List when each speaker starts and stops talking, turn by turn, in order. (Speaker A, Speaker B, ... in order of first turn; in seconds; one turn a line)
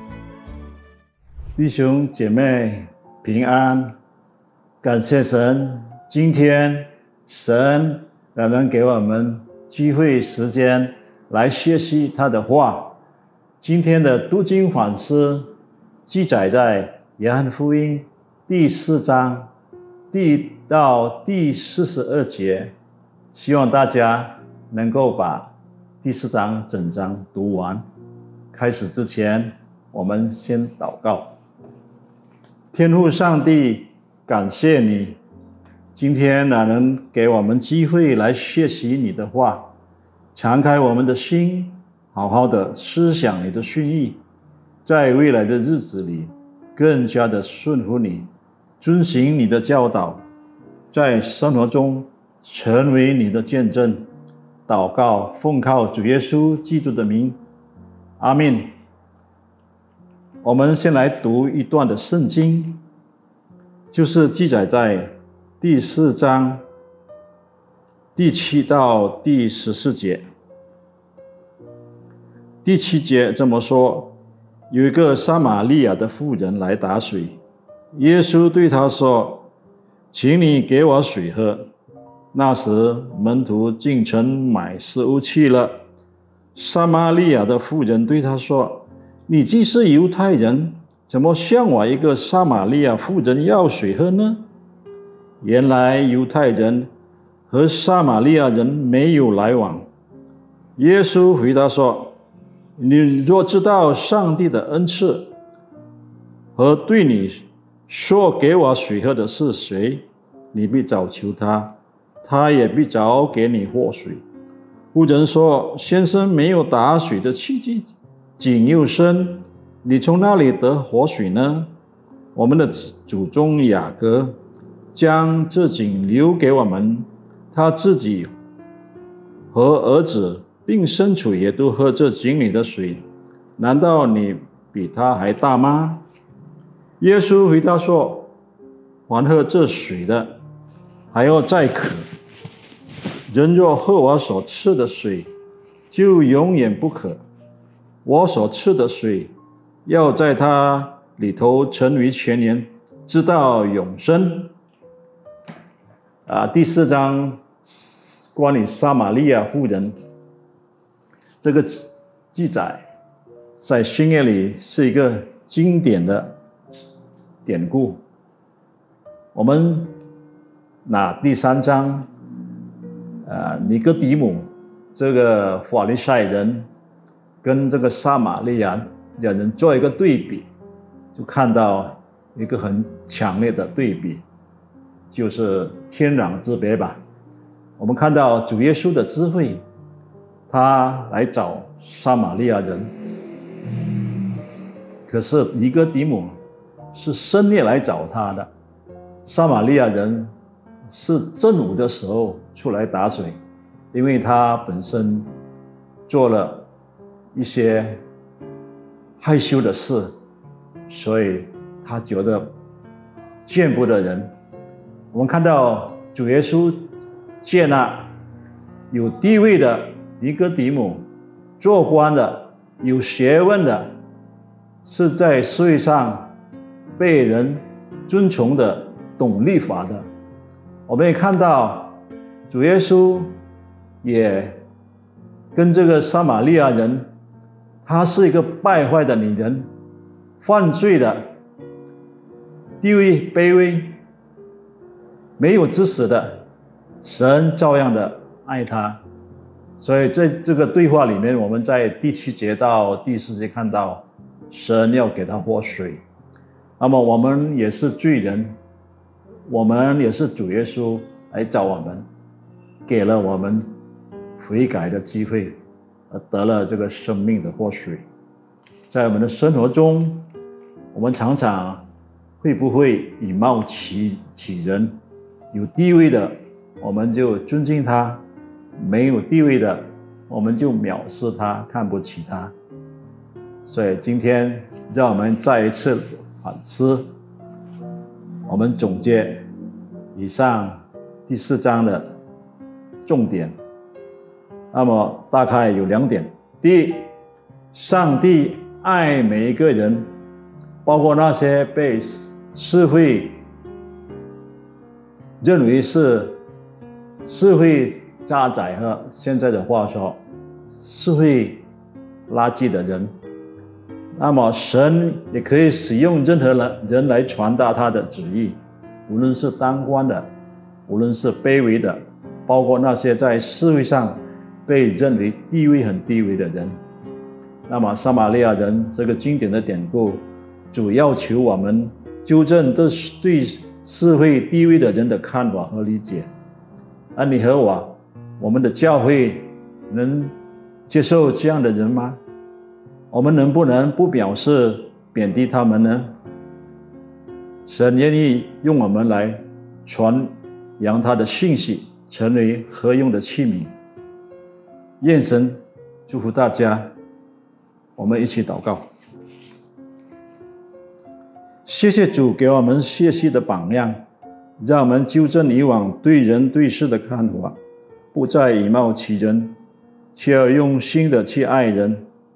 Speaker A: 1.6-4.0
Speaker A: 4.8-13.0
Speaker A: 13.6-15.5
Speaker A: 16.0-19.5
Speaker A: 20.1-22.7
Speaker A: 23.3-27.8
Speaker A: 28.5-31.4
Speaker A: 32.7-35.2
Speaker A: 35.9-39.7
Speaker A: 40.3-44.2
Speaker A: 44.8-48.3
Speaker A: 48.8-50.2
Speaker A: 50.9-54.1
Speaker A: 54.7-57.4
Speaker A: 58.2-58.7
Speaker A: 60.4-62.8
Speaker A: 63.9-66.6
Speaker A: 68.1-70.2
Speaker A: 72.6-74.2
Speaker A: 74.7-77.4
Speaker A: 77.9-79.5
Speaker A: 80.1-81.7
Speaker A: 82.3-85.8
Speaker A: 86.5-94.4
Speaker A: 95.4-96.9
Speaker A: 97.5-99.9
Speaker A: 100.8-102.2
Speaker A: 102.8-105.3
Speaker A: 106.5-114.2
Speaker A: 114.9-121.7
Speaker A: 122.3-124.3
Speaker A: 124.9-128.3
Speaker A: 129.5-133.0
Speaker A: 133.6-136.0
Speaker A: 137.0-138.3
Speaker A: 139.1-140.4
Speaker A: 141.1-142.0
Speaker A: 143.3-145.3
Speaker A: 145.9-147.2
Speaker A: 148.0-149.3
Speaker A: 149.8-154.5
Speaker A: 156.2-159.9
Speaker A: 161.4-162.8
Speaker A: 163.6-166.3
Speaker A: 167.4-168.0
Speaker A: 169.3-170.0
Speaker A: 170.8-172.1
Speaker A: 173.2-176.7
Speaker A: 177.4-180.5
Speaker A: 181.1-184.2
Speaker A: 185.1-187.0
Speaker A: 187.8-189.6
Speaker A: 190.5-192.9
Speaker A: 195.1-196.3
Speaker A: 196.9-198.5
Speaker A: 199.2-200.3
Speaker A: 200.9-203.4
Speaker A: 203.9-205.3
Speaker A: 206.1-206.7
Speaker A: 207.3-208.0
Speaker A: 209.2-210.1
Speaker A: 210.9-212.5
Speaker A: 213.4-214.3
Speaker A: 215.1-216.9
Speaker A: 217.4-218.1
Speaker A: 218.9-221.0
Speaker A: 221.6-223.9
Speaker A: 224.8-226.3
Speaker A: 226.9-230.0
Speaker A: 230.9-233.3
Speaker A: 234.0-234.6
Speaker A: 235.5-237.1
Speaker A: 237.8-239.7
Speaker A: 240.4-241.3
Speaker A: 242.8-244.0
Speaker A: 245.4-246.4
Speaker A: 247.0-249.0
Speaker A: 249.8-256.0
Speaker A: 256.8-258.6
Speaker A: 259.5-262.1
Speaker A: 262.9-263.7
Speaker A: 264.4-265.6
Speaker A: 266.1-268.0
Speaker A: 268.9-270.3
Speaker A: 270.9-271.8
Speaker A: 272.4-275.0
Speaker A: 275.5-278.2
Speaker A: 278.8-282.5
Speaker A: 283.6-287.1
Speaker A: 288.5-289.4
Speaker A: 290.1-292.1
Speaker A: 293.0-293.5
Speaker A: 294.7-297.1
Speaker A: 297.7-300.1
Speaker A: 300.8-303.4
Speaker A: 305.4-306.4
Speaker A: 307.2-310.2
Speaker A: 310.8-311.6
Speaker A: 312.3-313.1
Speaker A: 314.2-320.3
Speaker A: 320.9-326.8
Speaker A: 327.7-336.3
Speaker A: 337.1-340.3
Speaker A: 340.9-342.2
Speaker A: 343.1-346.1
Speaker A: 347.6-353.7
Speaker A: 355.0-356.9
Speaker A: 357.9-358.9
Speaker A: 361.6-364.0
Speaker A: 364.6-367.6
Speaker A: 368.1-369.6
Speaker A: 370.1-372.1